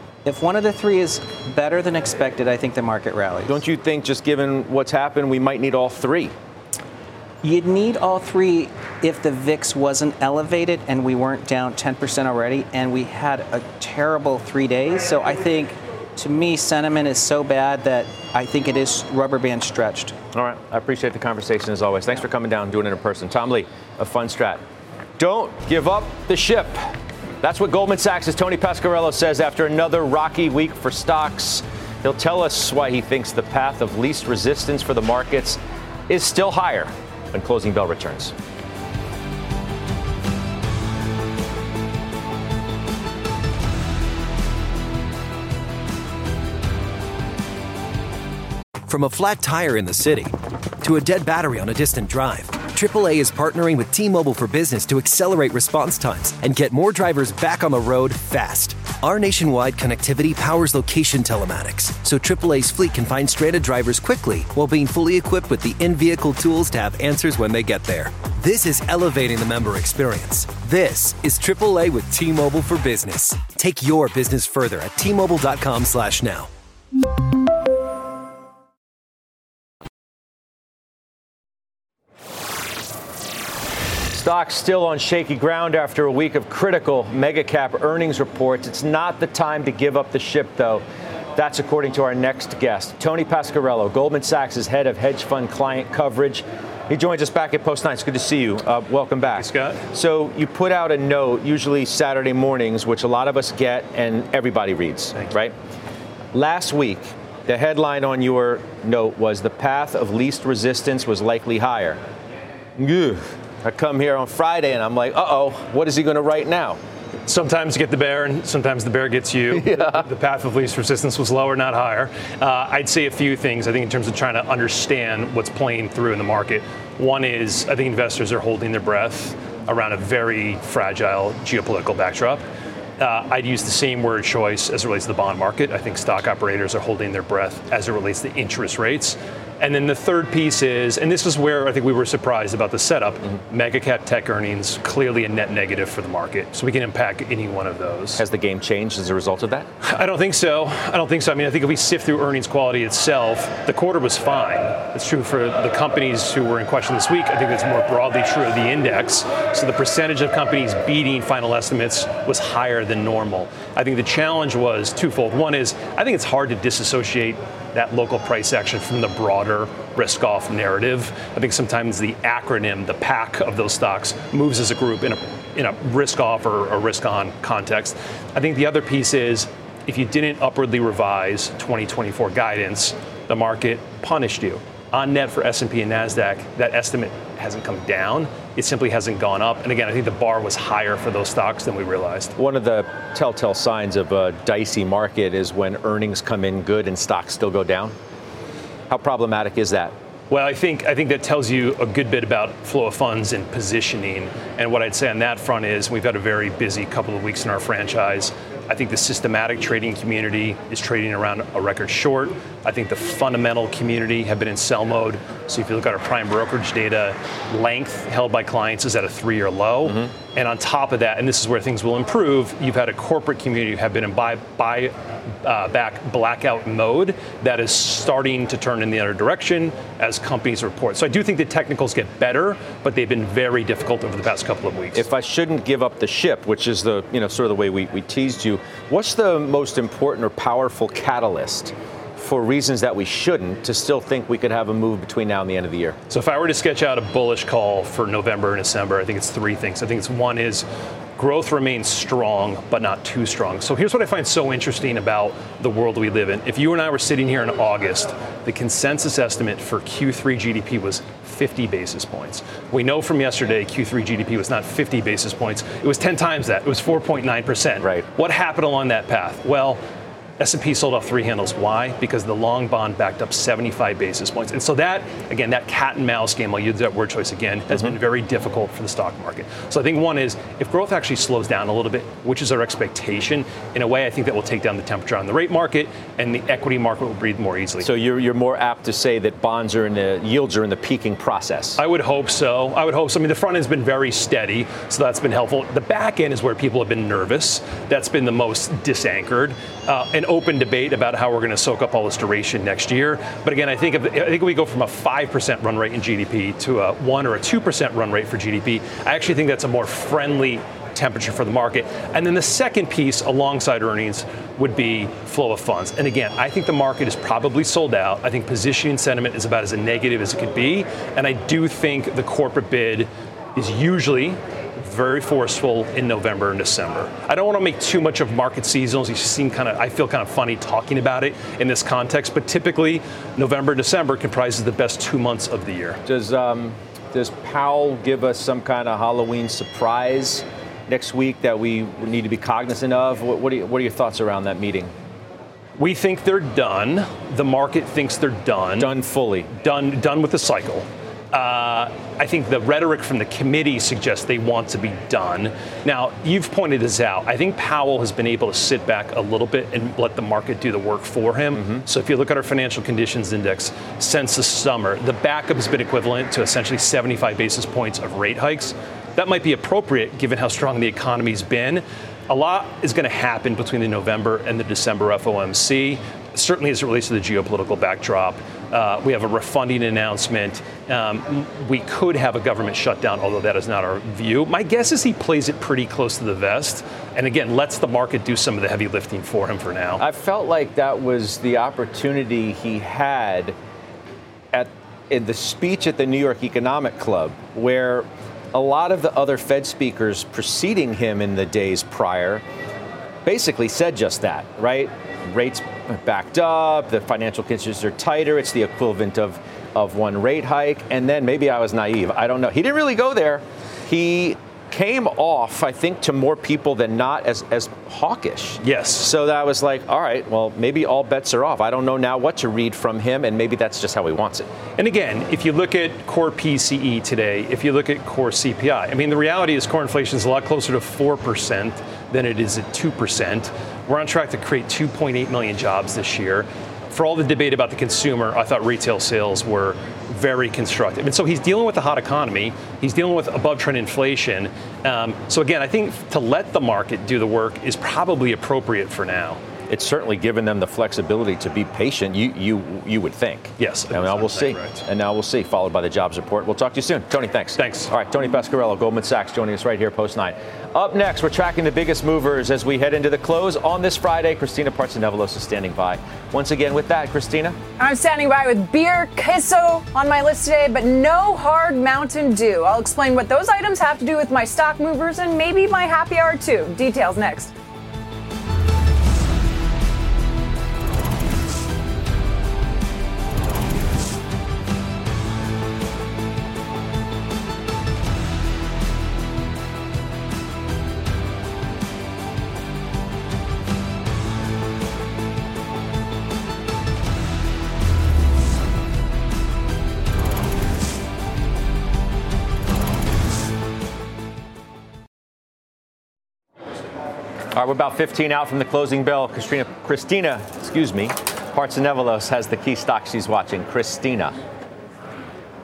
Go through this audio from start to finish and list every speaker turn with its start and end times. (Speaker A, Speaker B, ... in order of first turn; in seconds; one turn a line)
Speaker A: 0.2-3.6
Speaker B: 3.5-6.3
Speaker A: 7.4-20.1
Speaker B: 20.3-24.6
Speaker B: 25.2-38.3
Speaker C: 48.9-76.5
Speaker B: 84.1-90.8
Speaker B: 91.3-105.5
Speaker D: 99.4-99.8
Speaker B: 106.3-112.0
Speaker B: 112.8-116.8
Speaker D: 117.3-132.4
Speaker B: 119.5-120.1
Speaker D: 133.0-148.2
Speaker B: 148.2-149.7
Speaker D: 149.8-192.3
Speaker B: 192.4-197.9
Speaker B: 198.9-199.9
Speaker D: 200.3-235.1
Speaker B: 234.9-246.0
Speaker D: 246.1-250.7
Speaker D: 251.2-269.8
Speaker B: 267.8-268.1
Speaker D: 270.4-287.9
Speaker B: 287.8-291.8
Speaker D: 291.8-336.0
Speaker B: 336.1-344.9
Speaker D: 345.8-348.9
Speaker B: 348.8-349.5
Speaker D: 349.5-390.0
Speaker B: 361.6-361.8
Speaker B: 390.0-393.6
Speaker B: 394.5-402.4
Speaker B: 403.2-424.5
Speaker D: 418.6-419.1
Speaker D: 424.8-449.4
Speaker B: 449.7-467.6
Speaker D: 453.6-454.8
Speaker D: 457.6-457.9
Speaker E: 467.8-477.5
Speaker B: 507.5-514.4